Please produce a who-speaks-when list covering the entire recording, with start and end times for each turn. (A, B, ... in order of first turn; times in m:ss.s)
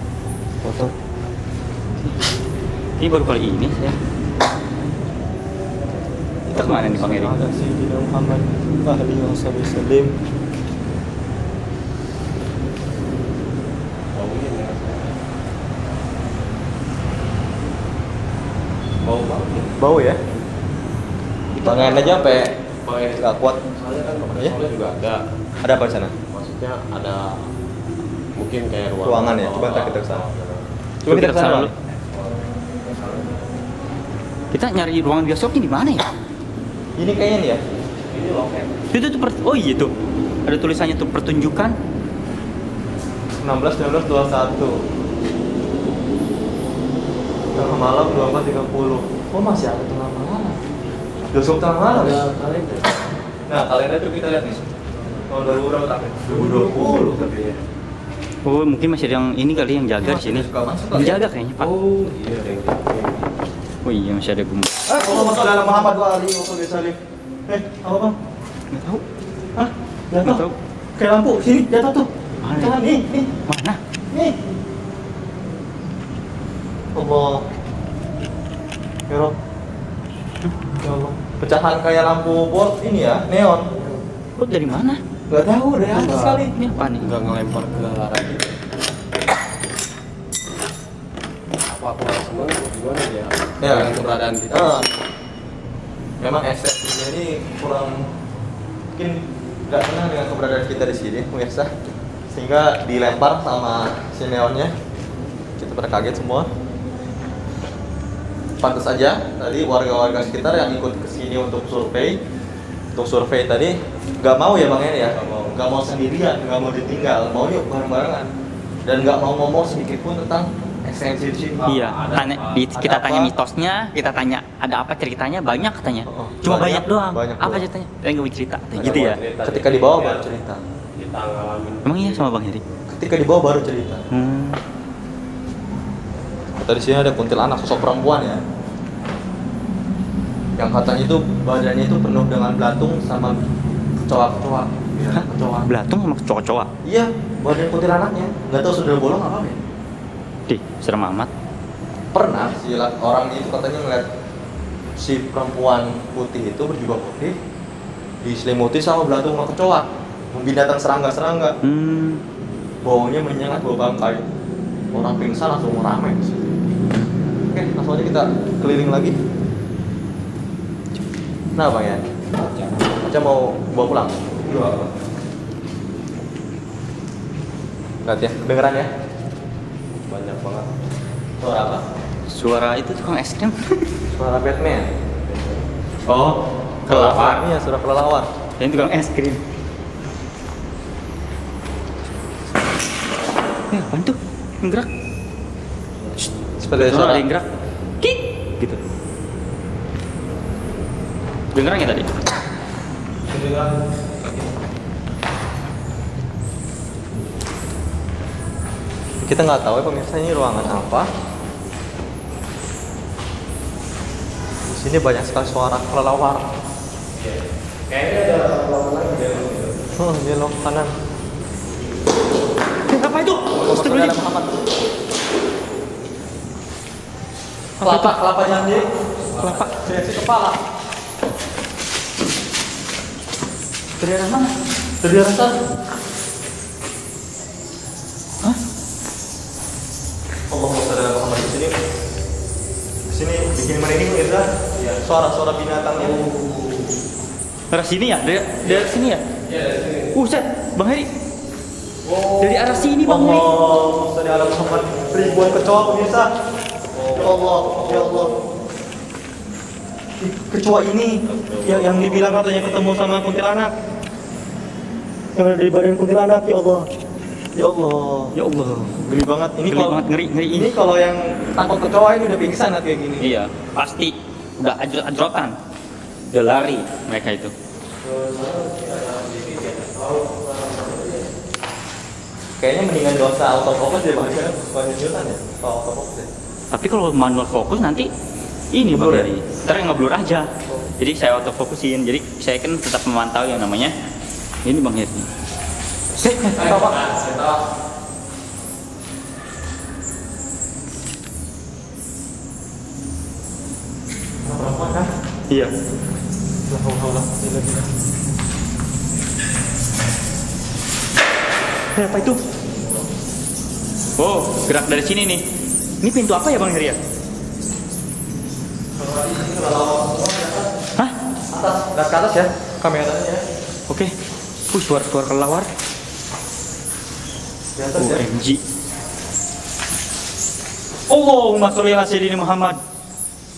0:00.6-0:00.9 A
0:03.0-0:04.0 B
0:06.5-0:10.2 A
0:06.5-0:07.3 B
0:14.1-0:15.2 C
0:19.0-0:19.8 C
0:19.8-0:20.2 A
0:21.5-0:25.2 C
0:21.6-0:22.5 A
0:23.2-0:23.6 A
0:25.6-0:26.1 A
0:26.3-0:27.5 C
0:28.4-0:30.7 C
0:29.0-0:30.2 A
0:31.0-0:31.7 A
0:31.0-0:31.7 B
0:32.1-0:33.6 C
0:34.5-0:36.1 B
0:37.0-0:37.6 A
0:38.1-0:38.7 C
0:38.9-0:39.9 B
0:40.4-0:41.8 B
0:43.4-0:44.8 A
0:47.5-0:50.6 A
0:51.3-0:52.2 A
0:51.8-0:53.1 C
0:53.5-0:54.6 A
0:55.0-0:55.3 C
0:55.3-0:57.2 A
0:56.3-0:57.6 C
0:58.4-1:01.7 B
1:00.0-1:01.2 A
1:01.6-1:03.3 C
1:03.8-1:05.3 B
1:04.9-1:08.1 A
1:08.7-1:09.0 B
1:09.6-1:10.4 A
1:10.2-1:10.5 B
1:11.0-1:13.3 A
1:12.4-1:12.8 B
1:13.4-1:13.8 B
1:16.9-1:17.4 A
1:19.1-1:19.3 A
1:20.8-1:23.7 A
1:24.4-1:25.0 B
1:25.3-1:26.5 A
1:25.9-1:26.4 C
1:26.1-1:27.1 B
1:27.0-1:28.6 C
1:31.6-1:34.9 C
1:33.6-1:33.9 A
1:34.5-1:34.9 A
1:36.2-1:38.0 A
1:38.9-1:41.7 A
1:42.3-1:44.7 A
1:45.6-1:46.5 A
1:48.6-1:52.2 A
1:52.9-1:58.3 A
1:55.1-1:55.6 C
1:58.8-2:01.6 A
2:01.6-2:02.7 C
2:01.6-2:09.2 B
2:02.7-2:03.3 A
2:06.1-2:07.6 A
2:08.8-2:10.3 C
2:09.0-2:10.6 A
2:10.9-2:12.3 C
2:11.8-2:12.6 B
2:12.9-2:14.0 A
2:14.1-2:14.6 B
2:16.6-2:18.4 A
2:20.6-2:23.4 A
2:24.0-2:25.7 A
2:25.1-2:26.7 B
2:26.8-2:29.6 A
2:30.5-2:31.3 B
2:32.1-2:34.1 A
2:35.0-2:37.3 A
2:38.2-2:41.5 A
2:41.6-2:42.2 B
2:42.8-2:44.2 A
2:44.9-2:46.6 A
2:47.5-2:49.2 A
2:51.6-2:52.0 A
2:52.4-2:52.7 C
2:52.9-2:54.9 A
2:58.0-2:58.9 A
3:00.1-3:00.7 C
3:01.4-3:01.8 A
3:02.3-3:03.8 B
3:04.1-3:04.9 A
3:05.2-3:05.6 C
3:06.1-3:07.4 B
3:06.9-3:08.3 A
3:08.6-3:09.4 B
3:13.7-3:14.9 B
3:16.2-3:17.5 B
3:16.6-3:17.2 A
3:18.0-3:18.8 B
3:21.5-3:22.1 B
3:23.3-3:23.7 C
3:29.2-3:31.1 A
3:34.7-3:36.5 A
3:37.1-3:39.8 C
3:40.0-3:40.9 A
3:42.8-3:44.1 B
3:43.5-3:44.7 A
3:47.8-3:48.2 B
3:47.8-3:48.8 A
3:49.4-3:49.7 B
3:49.4-3:50.6 A
3:54.0-3:54.5 B
3:55.0-3:55.5 A
4:00.5-4:01.7 A
4:03.1-4:04.5 A
4:04.7-4:05.0 C
4:05.0-4:06.2 A
4:06.0-4:06.9 C
4:07.7-4:09.2 B
4:09.4-4:10.2 C
4:10.1-4:11.1 B
4:12.0-4:12.9 C
4:12.4-4:13.4 B
4:13.0-4:16.3 A
4:14.1-4:15.7 C
4:16.9-4:18.4 C
4:17.1-4:18.3 A
4:20.2-4:23.7 A
4:21.2-4:22.5 C
4:25.4-4:26.9 A
4:27.5-4:28.4 A
4:28.3-4:29.0 B
4:29.0-4:30.0 A
4:29.7-4:30.7 B
4:30.5-4:33.3 A
4:33.2-4:35.5 B
4:36.3-4:37.5 B
4:38.0-4:41.3 C
4:42.6-4:46.3 A
4:46.7-4:48.1 B
4:48.7-4:53.9 B
4:48.8-4:49.3 A
4:54.6-4:55.3 B
4:56.2-4:57.0 A
4:56.2-4:56.5 B
4:56.6-4:57.5 C
5:04.4-5:05.1 A
5:06.7-5:07.9 A
5:11.9-5:12.4 B
5:14.2-5:15.4 B
5:16.0-5:17.0 B
5:19.0-5:20.7 A
5:21.5-5:23.4 A
5:24.7-5:25.7 B
5:27.7-5:28.2 A
5:27.9-5:28.6 B
5:31.1-5:32.8 B